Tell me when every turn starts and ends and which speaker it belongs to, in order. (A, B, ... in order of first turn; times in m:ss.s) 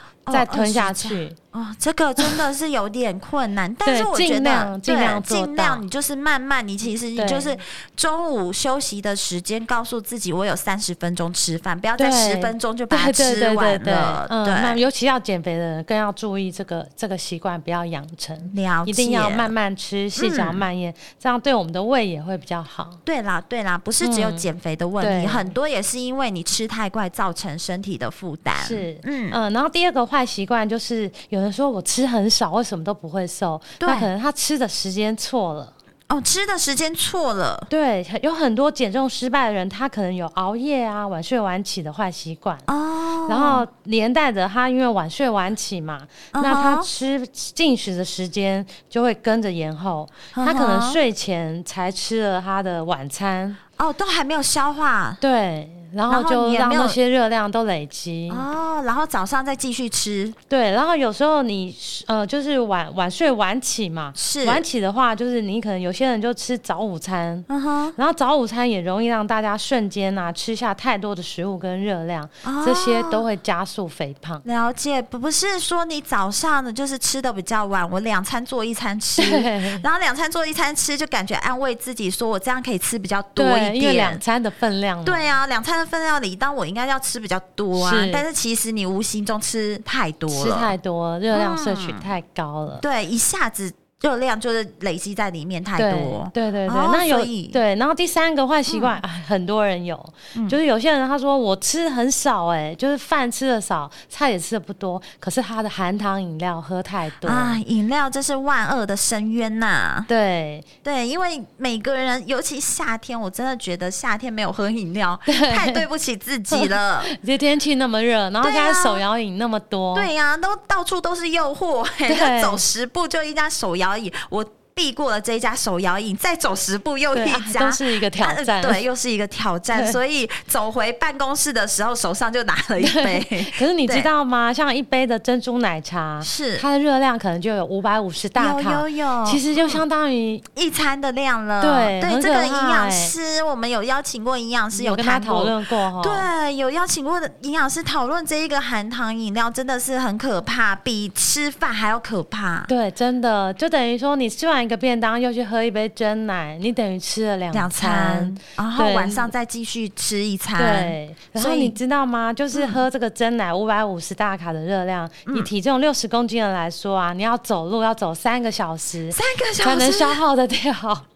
0:00.2-0:14.8 A
0:00.3-0:01.4 B
0:03.8-0:05.8 B
0:07.2-0:07.6 B
0:12.0-0:23.0 B
0:18.4-0:19.5 A
0:20.2-0:20.6 A
0:23.1-0:29.4 A
0:24.0-0:24.4 B
0:25.0-0:25.5 B
0:28.6-0:35.7 B
0:33.8-0:34.1 A
0:36.1-0:37.7 A
0:37.7-0:42.6 B
0:42.7-0:43.6 A
0:43.3-0:53.6 B
0:46.3-0:46.9 A
0:50.3-0:51.0 A
0:53.8-0:55.2 A
0:55.2-0:58.4 B
0:56.1-0:57.0 A
0:58.3-1:00.4 A
1:00.5-1:14.4 B
1:04.2-1:04.6 A
1:07.5-1:08.0 A
1:12.4-1:13.2 A
1:14.4-1:24.2 A
1:19.2-1:19.8 B
1:23.4-1:25.3 B
1:25.0-1:30.7 A
1:27.8-1:28.2 B
1:30.3-1:32.8 B
1:31.3-1:32.1 A
1:32.8-1:37.6 A
1:35.8-1:47.6 B
1:38.7-1:39.0 A
1:47.2-1:50.1 A
1:50.1-1:50.7 B
1:50.8-1:57.1 A
1:55.3-1:55.8 B
1:56.5-2:00.1 B
1:58.4-1:59.0 A
1:59.9-2:14.1 A
2:02.1-2:02.6 B
2:07.1-2:08.8 B
2:09.7-2:10.0 B
2:12.8-2:20.4 B
2:16.2-2:16.6 A
2:18.4-2:19.8 A
2:20.6-2:32.7 A
2:21.6-2:23.1 B
2:24.7-2:26.3 B
2:32.7-2:39.3 B
2:37.5-2:41.8 A
2:40.6-2:51.1 B
2:42.5-2:42.8 A
2:49.1-2:50.2 A